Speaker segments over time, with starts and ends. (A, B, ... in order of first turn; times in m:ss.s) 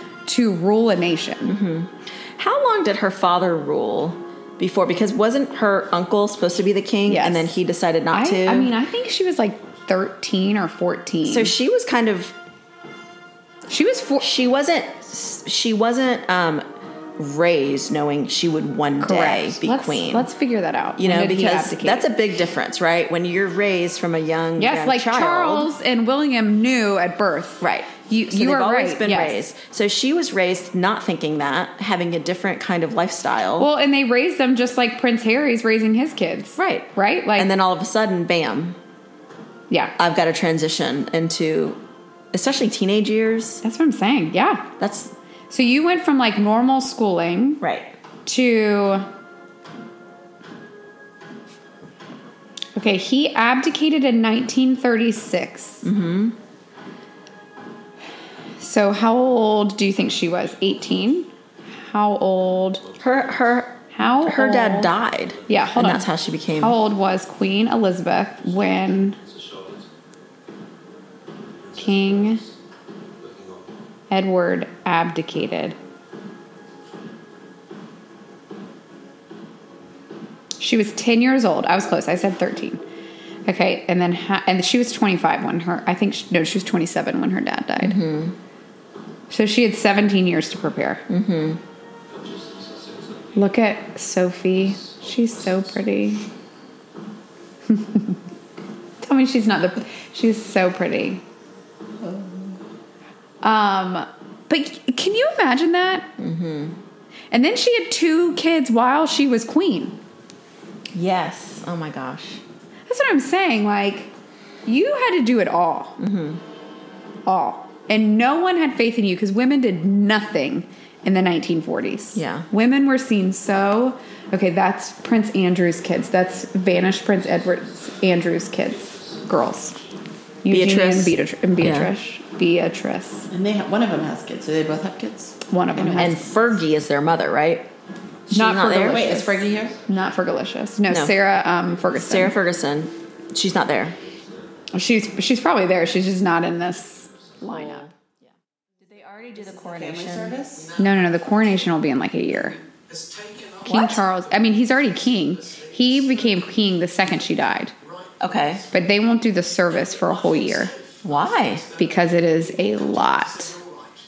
0:00.3-0:01.6 A
0:01.4-0:08.7 B
0:07.1-0:07.5 A
0:08.1-0:11.5 A
0:11.2-0:12.4 B
0:13.7-0:14.3 A
0:14.2-0:16.6 B
0:17.2-0:20.3 B
0:19.0-0:22.1 A
0:21.0-0:25.7 B
0:24.6-0:29.4 A
0:27.6-0:33.7 B
0:33.6-0:37.5 A
0:36.6-0:38.8 B
0:40.0-0:41.8 B
0:42.3-0:43.6 B
0:43.6-0:44.7 A
0:44.8-0:45.1 B
0:45.5-0:47.6 A
0:47.6-0:47.9 B
0:48.3-0:49.1 A
0:52.8-0:55.8 A
0:55.8-0:56.4 B
0:58.6-1:02.8 A
1:03.0-1:06.8 B
1:03.9-1:04.9 A
1:05.5-1:09.2 A
1:11.8-1:12.4 A
1:14.1-1:15.8 A
1:20.6-1:22.8 A
1:23.5-1:28.0 A
1:27.8-1:28.4 B
1:29.3-1:31.0 A
1:31.1-1:31.6 B
1:33.4-1:36.2 A
1:37.7-1:38.2 A
1:39.0-1:41.2 A
1:43.4-1:46.1 A
1:46.2-1:46.8 B
1:47.3-1:50.0 A
1:51.0-1:52.4 B
1:52.9-1:54.1 A
1:54.7-1:56.0 A
1:56.0-1:56.4 B
1:57.3-2:09.8 A
2:02.2-2:02.5 B
2:10.4-2:13.3 A
2:10.5-2:11.9 B
2:13.3-2:16.2 C
2:15.5-2:16.2 A
2:16.0-2:17.7 B
2:18.3-2:19.2 B
2:18.3-2:22.4 A
2:18.7-2:19.8 C
2:20.9-2:21.2 B
2:21.9-2:24.0 B
2:24.7-2:27.9 A
2:27.5-2:30.4 B
2:29.4-2:30.7 C
2:30.8-2:32.6 A
2:33.6-2:37.7 A
2:33.6-2:34.0 B
2:38.2-2:38.6 B
2:38.7-2:40.8 A
2:41.0-2:41.7 B
2:41.8-2:43.6 A